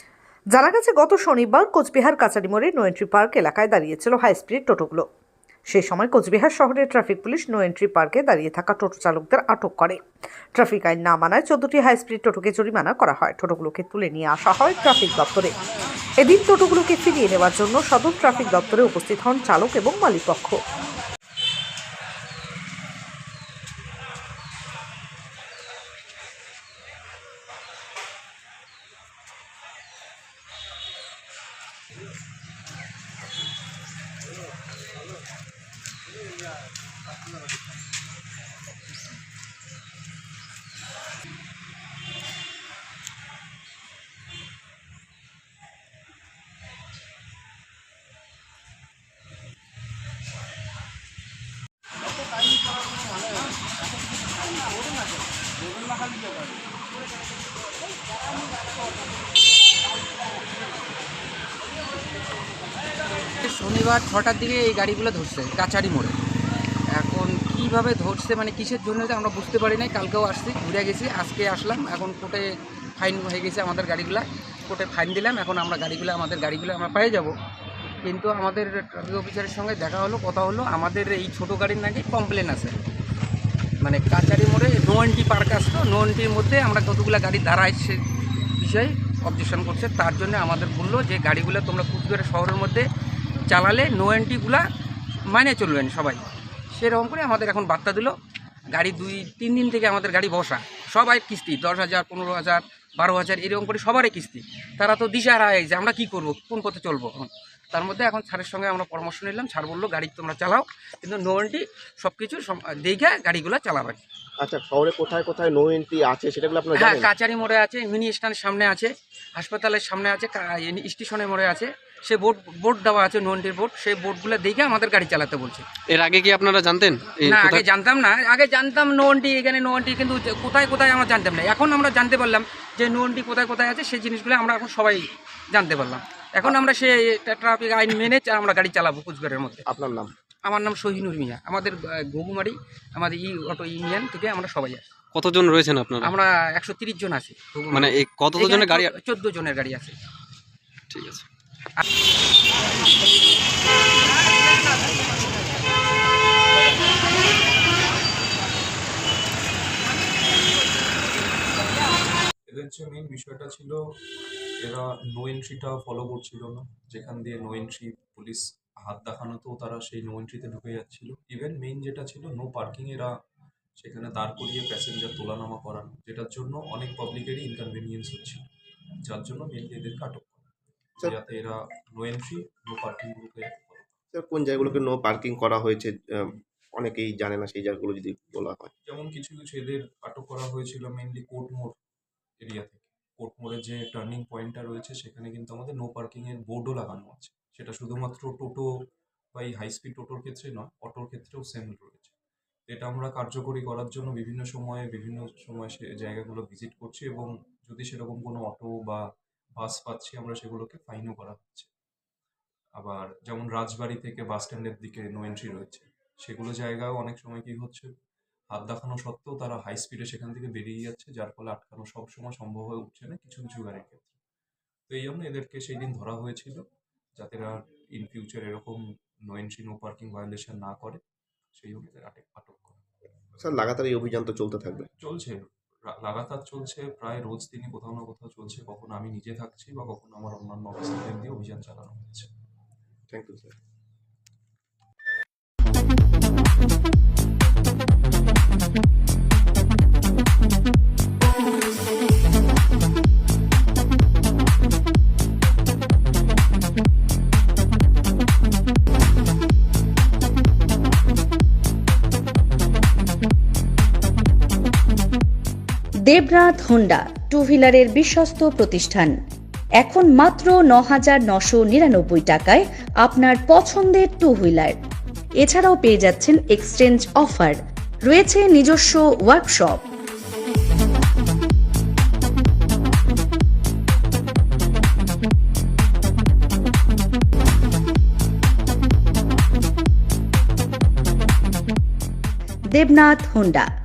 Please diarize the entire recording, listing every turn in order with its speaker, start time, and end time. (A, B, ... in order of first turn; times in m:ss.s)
0:00.5-0:05.1 A
0:05.7-0:10.0 A
0:10.6-0:15.5 A
0:16.2-0:20.6 A
1:03.4-1:06.2 B
1:07.0-1:12.5 B
1:13.0-1:17.3 B
1:18.0-1:22.8 B
1:23.8-1:28.0 B
1:28.6-1:32.9 B
1:33.5-1:34.7 B
1:35.3-1:38.2 B
1:38.7-1:54.0 B
1:54.4-1:57.1 C
1:56.8-2:05.6 B
2:05.9-2:07.6 D
2:07.2-2:19.6 B
2:19.7-2:20.1 C
2:20.4-2:24.9 B
2:25.1-2:26.1 D
2:26.0-2:30.0 B
2:27.7-2:28.9 D
2:30.9-2:31.3 D
2:42.5-2:43.8 E
2:44.6-2:53.1 E
2:53.8-2:58.4 E
2:59.0-3:00.5 E
3:01.0-3:04.0 E
3:04.1-3:08.7 C
3:08.8-3:11.8 E
3:12.4-3:18.7 E
3:19.3-3:22.2 E
3:22.7-3:29.0 E
3:29.6-3:31.7 E
3:32.8-3:37.9 E
3:38.5-3:44.2 E
3:44.9-3:46.6 E
3:47.2-3:51.0 E
3:51.6-3:52.8 E
3:53.4-3:54.9 C
3:55.0-4:02.3 E
4:03.1-4:03.6 C
4:26.1-4:29.2 F
4:29.8-4:34.8 F
4:35.4-4:39.8 F
4:52.7-4:53.7 F